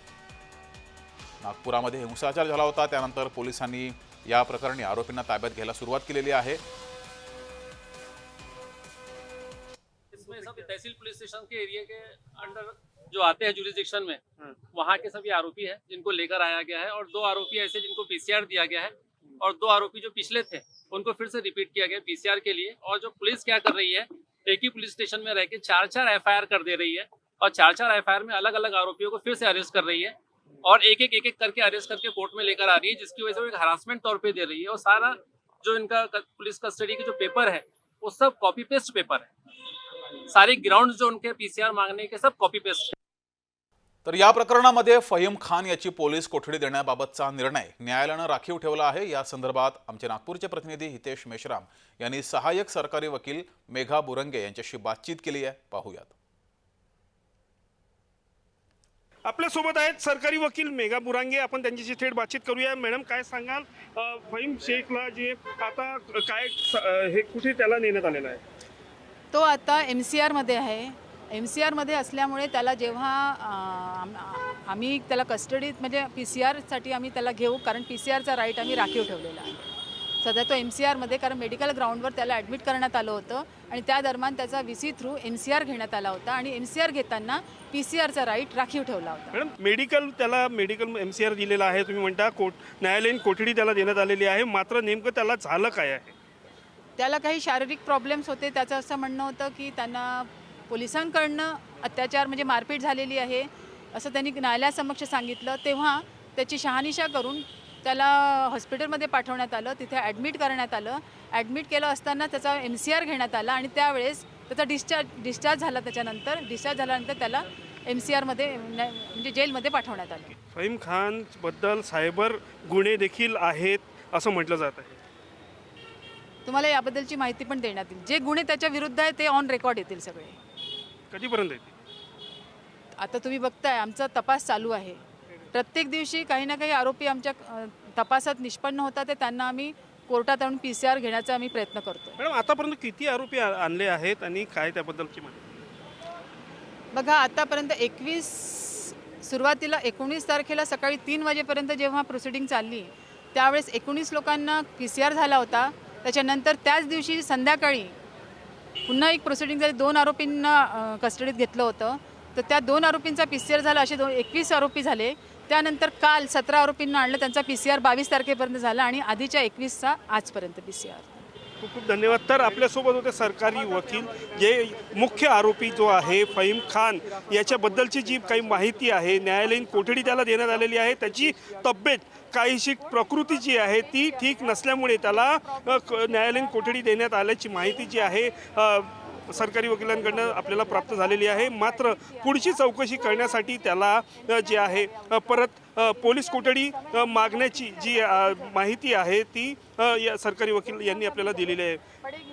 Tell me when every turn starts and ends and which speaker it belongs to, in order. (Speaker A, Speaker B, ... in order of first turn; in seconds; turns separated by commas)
Speaker A: 1.4-6.6, Speaker B: 10.1-39.3, Speaker B: 40.3-42.9, Speaker A: 44.0-56.1, Speaker C: 59.2-68.4, Speaker D: 69.3-79.6, Speaker D: 80.2-89.4, Speaker C: 89.3-96.1, Speaker D: 97.0-120.4, Speaker C: 120.5-125.0, Speaker D: 126.5-130.4, Speaker C: 131.1-131.7, Speaker D: 133.0-135.0, Speaker D: 135.5-142.2, Speaker C: 142.2-145.4, Speaker D: 146.9-158.0, Speaker D: 158.9-171.3, Speaker C: 171.6-201.8